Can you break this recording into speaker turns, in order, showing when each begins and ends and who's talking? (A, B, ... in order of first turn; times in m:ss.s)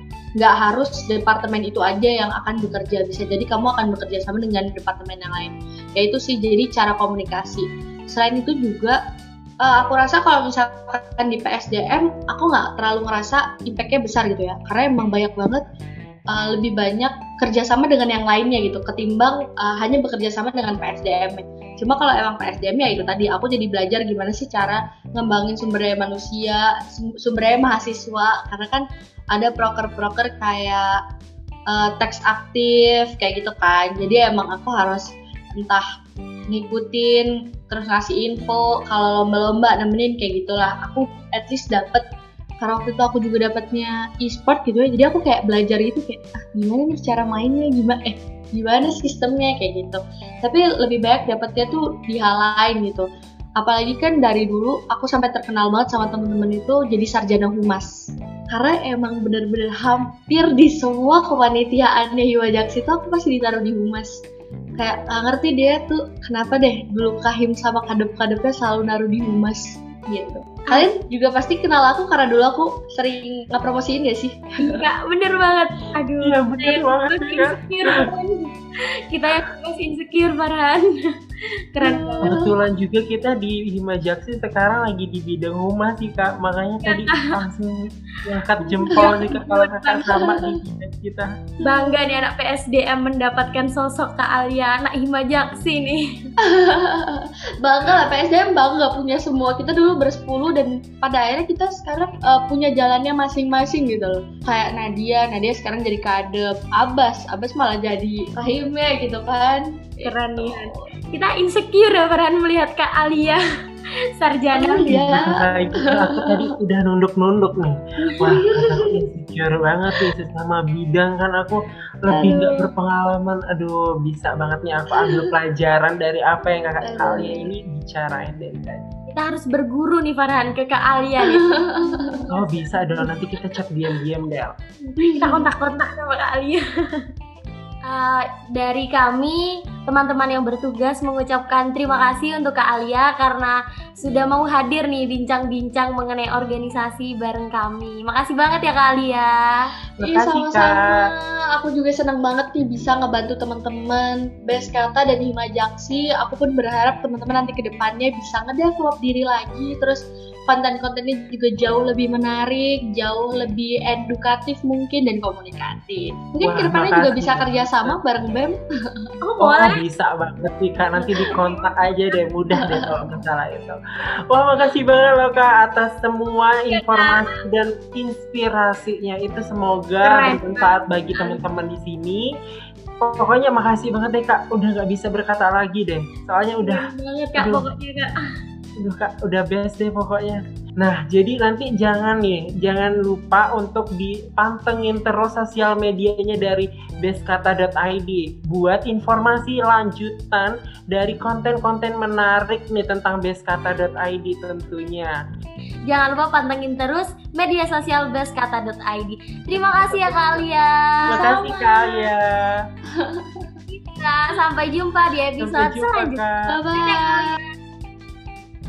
0:00.4-0:09.0 A
0:09.6-0:15.6 A
0:16.3-0:31.0 A
0:31.7-0:35.8 A
0:36.5-0:42.0 A
0:42.6-0:53.0 A
0:53.6-1:04.2 A
1:04.8-1:14.8 A
1:14.6-1:18.5 B
1:16.2-1:17.6 C
1:19.1-1:21.0 B
1:21.7-1:22.4 B
1:21.8-1:22.5 A
1:22.2-1:31.3 C
1:26.9-1:27.3 B
1:28.8-1:30.3 B
1:28.9-1:29.3 A
1:30.0-1:30.6 A
1:31.6-1:36.0 B
1:31.6-1:32.2 A
1:36.4-1:50.9 A
1:50.0-1:53.4 B
1:54.2-1:55.3 B
1:54.5-1:56.5 A
1:55.1-2:08.8 C
1:58.1-1:59.0 A
2:02.1-2:02.7 A
2:04.9-2:05.3 A
2:06.8-2:07.5 A
2:09.1-2:13.1 B
2:11.3-2:12.2 A
2:12.3-2:14.5 C
2:15.0-2:17.0 B
2:15.0-2:15.4 A
2:17.9-2:29.4 B
2:30.0-2:31.1 C
2:30.0-2:49.1 A
2:46.4-2:48.0 C
2:49.2-2:49.8 B
2:49.4-2:53.8 C
2:52.6-2:53.1 A
2:54.3-3:02.3 C
2:56.7-2:57.2 B
3:00.0-3:01.4 B
3:03.0-3:07.6 C
3:06.6-3:08.1 B
3:08.8-3:25.1 C
3:25.9-3:31.6 B
3:29.5-3:30.4 A
3:31.1-3:32.6 C
3:31.1-3:31.5 A
3:32.9-3:33.5 A
3:33.7-3:36.2 B
3:35.4-3:36.5 C
3:36.5-3:37.3 A
3:36.8-3:37.4 B